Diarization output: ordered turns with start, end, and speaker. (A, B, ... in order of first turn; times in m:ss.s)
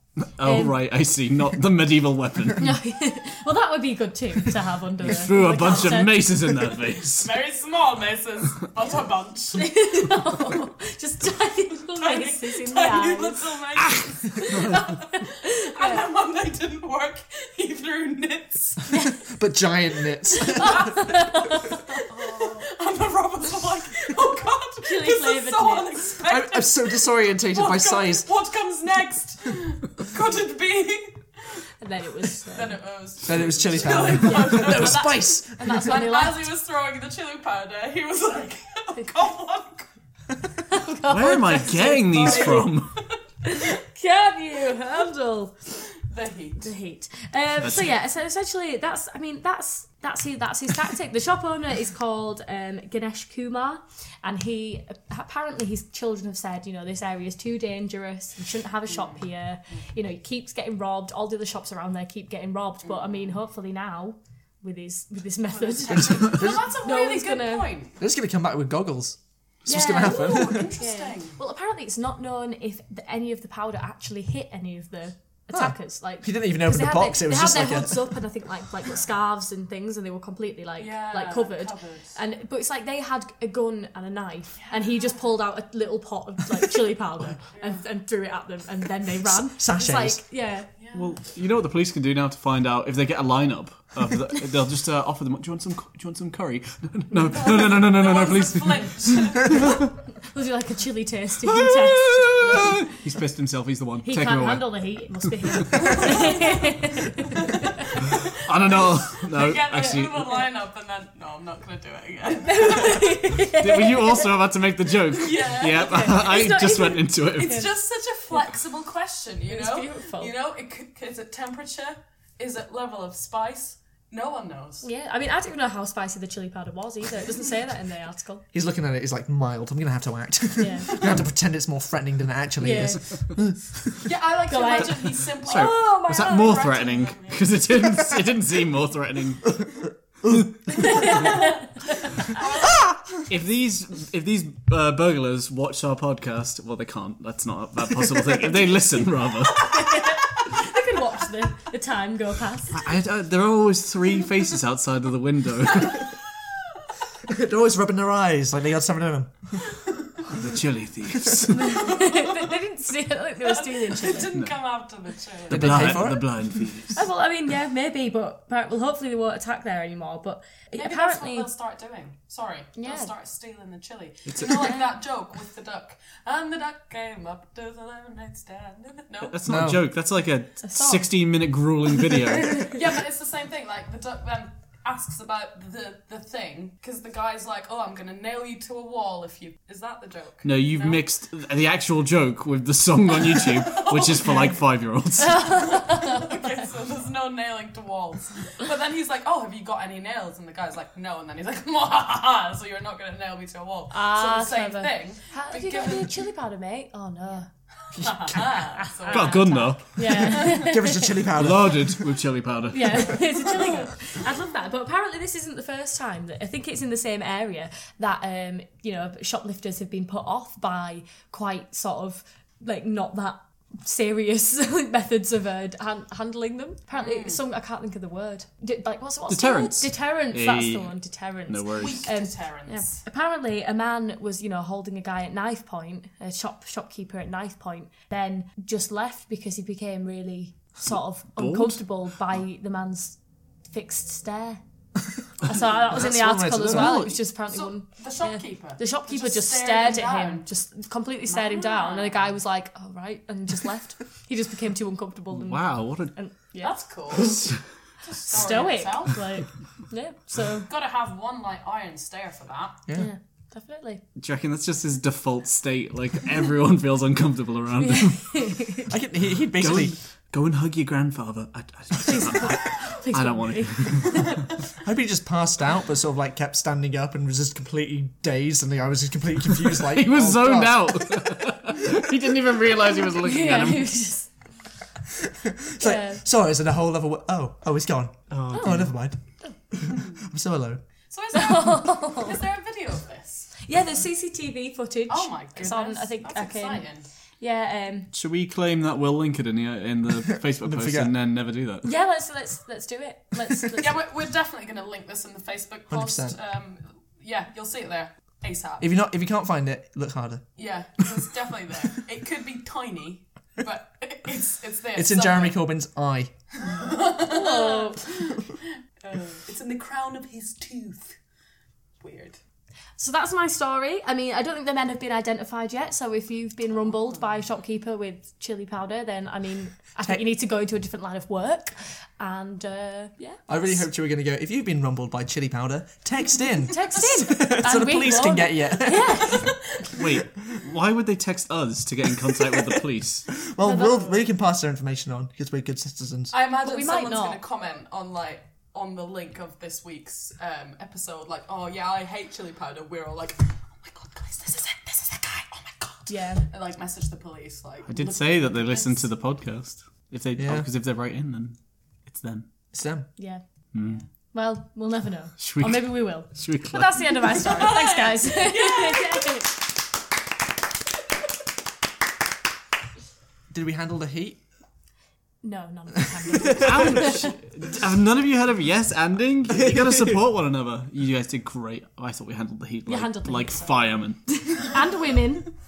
0:00.2-0:02.7 A
0:00.4-0:00.8 B
0:02.6-0:06.7 B
0:05.0-0:07.3 A
0:07.1-0:09.8 C
0:09.6-0:13.4 B
0:12.0-0:18.9 C
0:13.8-0:14.9 A
0:14.4-0:16.1 B
0:18.9-0:19.2 B
0:19.2-0:21.1 D
0:20.4-0:22.6 B
0:22.0-0:31.6 C
0:24.8-0:25.9 B
0:26.3-0:28.3 D
0:31.8-0:32.8 B
0:32.5-0:39.9 C
0:33.2-0:35.9 D
0:34.0-0:36.5 B
0:40.7-0:42.7 B
0:41.1-0:42.9 A
0:42.2-0:43.1 C
0:43.4-0:45.6 B
0:46.0-0:46.7 C
0:46.6-1:07.8 B
0:47.6-0:47.9 A
0:58.9-0:59.2 C
1:02.8-1:03.3 C
1:05.5-1:08.0 C
1:06.0-1:06.7 D
1:08.0-1:10.8 D
1:09.7-1:30.7 B
1:10.0-1:11.4 C
1:15.5-1:18.2 D
1:20.8-1:22.2 C
1:24.6-1:25.1 C
1:27.5-1:27.8 C
1:29.2-1:30.2 D
1:30.8-1:31.1 C
1:30.9-1:39.9 A
1:37.2-1:39.8 C
1:40.2-1:42.9 B
1:41.4-1:44.8 A
1:44.0-1:47.9 B
1:45.6-1:46.0 A
1:45.7-1:53.3 C
1:48.2-1:50.4 A
1:52.4-1:54.3 B
1:53.4-1:57.7 A
1:55.1-1:56.4 C
1:55.7-1:57.7 B
1:57.3-2:04.9 C
1:59.5-2:00.3 B
2:04.8-2:08.4 B
2:08.5-2:14.1 D
2:10.6-2:11.0 B
2:12.6-2:13.0 B
2:14.0-2:17.6 C
2:14.5-2:16.6 B
2:15.4-2:19.8 A
2:20.2-2:21.1 D
2:20.8-2:22.4 B
2:22.4-2:22.6 C
2:23.2-2:29.9 A
2:29.6-2:32.9 B
2:32.7-2:36.2 A
2:37.2-2:39.6 D
2:40.2-2:42.0 A
2:41.5-2:44.3 B
2:41.7-2:42.6 C
2:43.4-2:46.0 C
2:45.5-2:47.1 A
2:45.5-2:46.5 D
2:46.9-2:51.5 B
2:50.8-2:59.4 C
2:52.8-2:53.1 B
2:54.3-2:54.7 A
2:54.4-2:54.8 B
2:59.2-3:02.7 A
2:59.4-2:59.8 D
3:00.6-3:01.1 B
3:02.0-3:02.8 B
3:02.6-3:11.0 C
3:10.4-3:15.7 A
3:13.1-3:14.6 C
3:15.2-3:16.6 B
3:15.4-3:26.2 C
3:23.9-3:27.5 B
3:27.9-3:29.6 C
3:28.5-3:31.2 B
3:29.1-3:30.4 A
3:30.3-3:32.0 D
3:31.3-3:33.3 A
3:32.7-4:03.2 B
3:33.5-3:33.9 C
3:46.9-3:47.4 C
3:49.3-3:50.9 A
3:51.5-3:52.1 A
3:51.8-3:53.0 C
4:01.4-4:01.8 A
4:03.7-4:04.6 B
4:05.4-4:16.8 B
4:05.9-4:07.1 D
4:06.7-4:07.2 A
4:07.5-4:10.5 C
4:11.3-4:12.4 C
4:15.3-4:16.1 A
4:16.6-4:17.4 C
4:17.2-4:17.6 A
4:18.0-4:19.3 C
4:18.3-4:20.7 B
4:20.7-4:22.8 C
4:23.0-4:24.0 B
4:24.2-4:28.6 A
4:27.8-4:28.9 B
4:28.9-4:30.0 D
4:29.6-4:34.4 A
4:32.0-4:34.4 B
4:34.8-4:41.3 D
4:39.8-4:43.9 A
4:43.2-4:44.3 B
4:45.2-4:49.2 D
4:45.8-4:46.2 B
4:48.3-4:48.9 A
4:48.5-4:48.8 B
4:49.7-4:50.8 D
4:51.1-4:53.6 C
4:51.3-4:52.4 B
4:53.6-4:56.9 B
4:55.1-4:57.1 C
4:57.4-4:58.1 B
4:58.1-5:01.9 A
5:00.6-5:01.1 D
5:01.8-5:04.0 B
5:03.8-5:08.9 C
5:05.9-5:06.4 D
5:08.8-5:10.5 D
5:10.6-5:15.6 C
5:15.0-5:16.3 D
5:16.6-5:21.2 C
5:17.2-5:18.1 B
5:22.0-5:22.4 C
5:23.0-5:33.8 B
5:33.5-5:39.5 D
5:36.7-5:39.7 B
5:39.9-5:43.3 A
5:43.3-5:46.3 D
5:43.6-5:44.2 B
5:46.3-5:59.1 C
5:46.6-5:47.4 B
5:56.1-5:56.5 B
5:57.9-6:02.5 A
6:00.4-6:00.7 D
6:02.7-6:03.1 D
6:03.2-6:03.4 B
6:03.7-6:04.0 A
6:03.8-6:04.1 C
6:04.3-6:09.5 B
6:05.4-6:07.4 A
6:07.4-6:09.4 C
6:13.5-6:14.4 D
6:15.4-6:17.4 B
6:16.3-6:16.8 D
6:16.6-6:24.2 A
6:19.6-6:20.2 D
6:22.9-6:25.5 B